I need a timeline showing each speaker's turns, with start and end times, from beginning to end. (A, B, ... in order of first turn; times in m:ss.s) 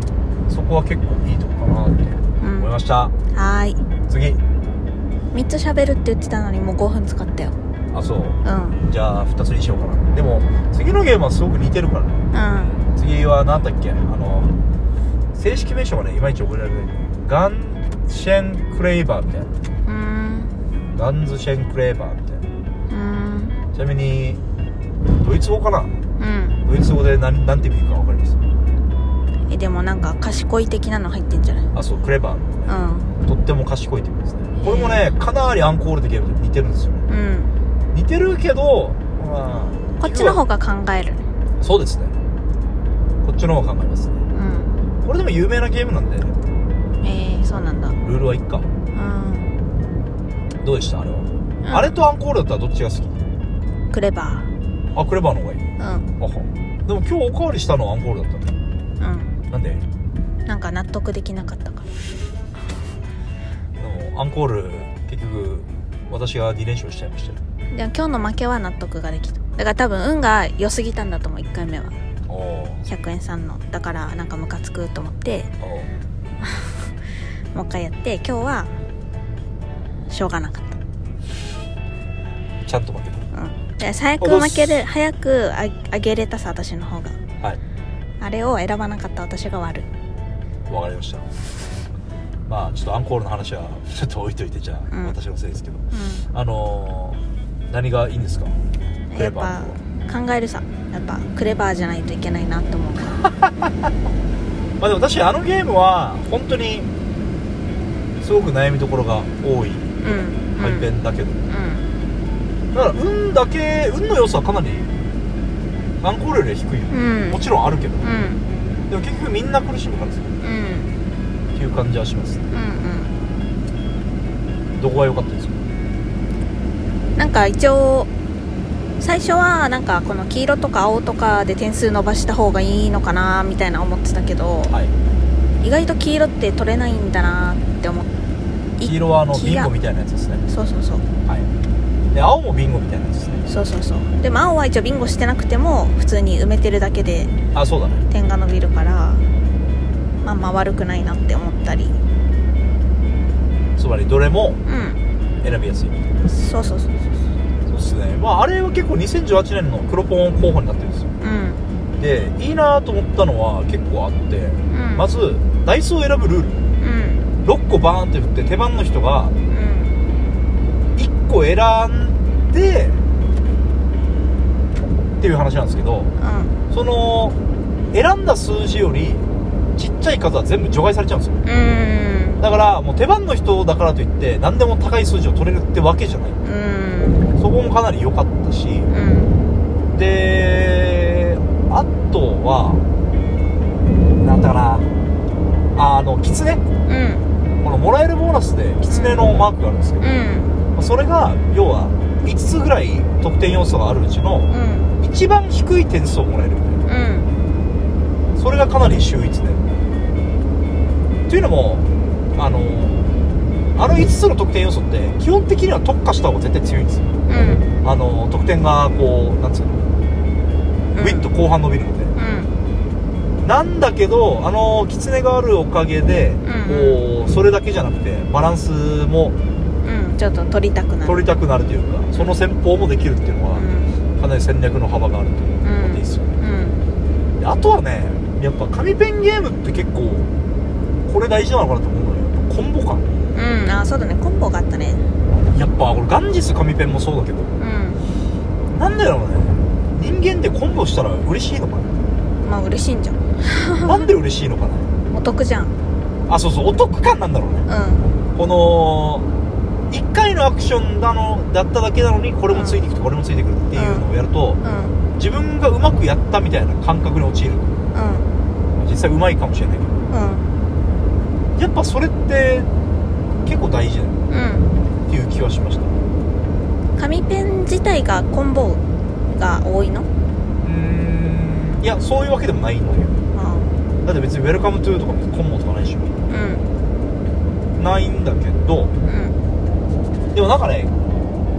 0:00.5-0:03.1 A
0:02.4-0:02.7 B
0:03.3-0:03.8 B
0:04.1-0:04.4 A
0:05.3-0:07.6 B
0:07.9-0:12.2 A
0:08.4-0:08.8 B
0:12.3-0:12.8 B
0:12.9-0:14.5 A
0:15.3-0:19.5 A
0:19.8-0:20.5 B
0:20.9-0:22.5 A
0:22.9-0:23.6 B
0:23.7-0:24.4 A
0:25.2-0:26.0 A
0:26.2-0:26.6 B
0:26.6-0:28.4 A
0:29.5-0:31.7 B
0:31.7-0:37.0 A
0:32.7-0:33.1 B
0:34.6-0:35.1 B
0:37.1-0:37.5 B
0:37.9-0:40.4 A
0:40.0-0:41.2 B
0:41.6-0:42.1 A
0:43.2-0:44.2 A
0:44.3-0:44.7 B
0:45.0-0:46.4 A
0:47.0-0:48.0 B
0:48.0-0:48.7 A
0:48.9-0:49.5 B
0:50.6-0:53.2 A
0:51.6-0:52.0 B
0:53.9-0:54.5 B
0:54.9-0:55.6 A
0:55.8-0:56.1 B
0:56.2-0:58.6 A
0:59.0-0:59.4 B
0:59.5-0:59.8 A
1:00.4-1:01.9 B
1:03.8-1:07.4 A
1:07.7-1:12.0 B
1:12.3-1:12.8 A
1:12.8-1:15.5 B
1:15.6-1:15.9 A
1:16.4-1:16.9 B
1:17.5-1:18.7 B
1:20.1-1:20.7 B
1:22.6-1:23.3 A
1:23.3-1:27.2 B
1:24.2-1:24.8 A
1:28.2-1:29.9 B
1:30.7-1:31.2 A
1:32.5-1:38.6 A
1:34.9-1:35.2 B
1:35.9-1:36.2 B
1:39.1-1:43.2 B
1:39.2-1:39.8 A
1:43.4-1:43.7 A
1:44.8-1:46.9 A
1:48.2-1:51.4 A
1:50.0-1:50.9 B
1:51.5-1:51.9 B
1:52.7-1:54.9 A
1:56.0-1:58.1 A
1:56.9-1:57.4 B
1:58.0-1:58.4 B
1:58.9-2:00.3 A
2:00.4-2:00.9 B
2:01.5-2:02.4 A
2:02.5-2:03.2 B
2:04.8-2:05.6 A
2:07.2-2:08.1 B
2:09.0-2:14.8 B
2:14.7-2:14.9 A
2:15.6-2:18.1 B
2:18.8-2:19.7 B
2:18.8-2:20.4 A
2:20.5-2:21.1 B
2:22.1-2:23.5 A
2:23.5-2:27.3 B
2:27.5-2:28.0 A
2:28.1-2:29.3 B
2:30.2-2:32.0 B
2:33.8-2:34.6 A
2:34.6-2:35.0 B
2:35.4-2:36.0 A
2:36.2-2:37.2 B
2:37.7-2:41.1 A
2:41.2-2:41.6 B
2:42.0-2:46.6 A
2:44.7-2:45.1 B
2:46.8-2:47.2 B
2:47.4-2:49.3 A
2:49.5-2:50.0 B
2:50.9-2:53.0 A
2:55.2-2:56.1 A
2:56.2-2:56.5 B
2:56.7-2:57.4 A
2:57.9-3:01.7 A
3:01.4-3:02.4 B
3:02.4-3:06.4 A
3:06.4-3:07.3 B
3:07.3-3:08.9 A
3:08.9-3:09.4 B
3:09.9-3:12.8 A
3:14.2-3:14.9 A
3:15.7-3:16.6 A
3:16.8-3:17.3 B
3:17.6-3:20.1 A
3:18.9-3:19.3 B
3:20.0-3:20.6 B
3:20.7-3:26.8 A
3:24.5-3:24.9 B
3:26.8-3:27.3 B
3:28.4-3:29.7 A
3:31.3-3:33.0 A
3:33.8-3:39.8 A
3:37.3-3:37.6 B
3:40.9-3:41.3 B
3:41.0-3:42.1 A
3:42.2-3:42.5 B
3:43.4-3:49.4 A
3:46.4-3:47.0 B
3:49.8-3:51.2 B
3:51.0-3:56.3 A
3:53.5-3:53.9 B
3:55.6-3:56.8 B
3:57.4-4:00.3 A
4:01.0-4:03.0 A
4:03.3-4:05.0 B
4:05.5-4:07.5 A
4:07.6-4:08.0 B
4:08.7-4:11.9 A
4:12.4-4:14.1 B
4:13.8-4:14.9 A
4:15.1-4:15.7 B
4:16.3-4:17.7 A
4:17.6-4:18.1 B
4:18.3-4:19.3 A
4:19.9-4:24.6 A
4:22.5-4:22.8 B
4:23.7-4:24.0 B
4:24.6-4:25.0 B
4:25.2-4:27.7 A
4:27.9-4:28.3 B
4:28.7-4:29.9 A
4:30.1-4:30.5 B
4:31.5-4:32.7 A
4:33.4-4:34.2 A
4:34.3-4:34.7 B
4:35.1-4:35.9 A
4:37.0-4:40.1 B
4:40.6-4:43.2 A
4:43.3-4:43.8 B
4:44.0-4:46.2 A
4:46.3-4:46.7 B
4:47.8-4:48.9 A
4:49.0-4:49.4 B
4:50.3-4:51.0 A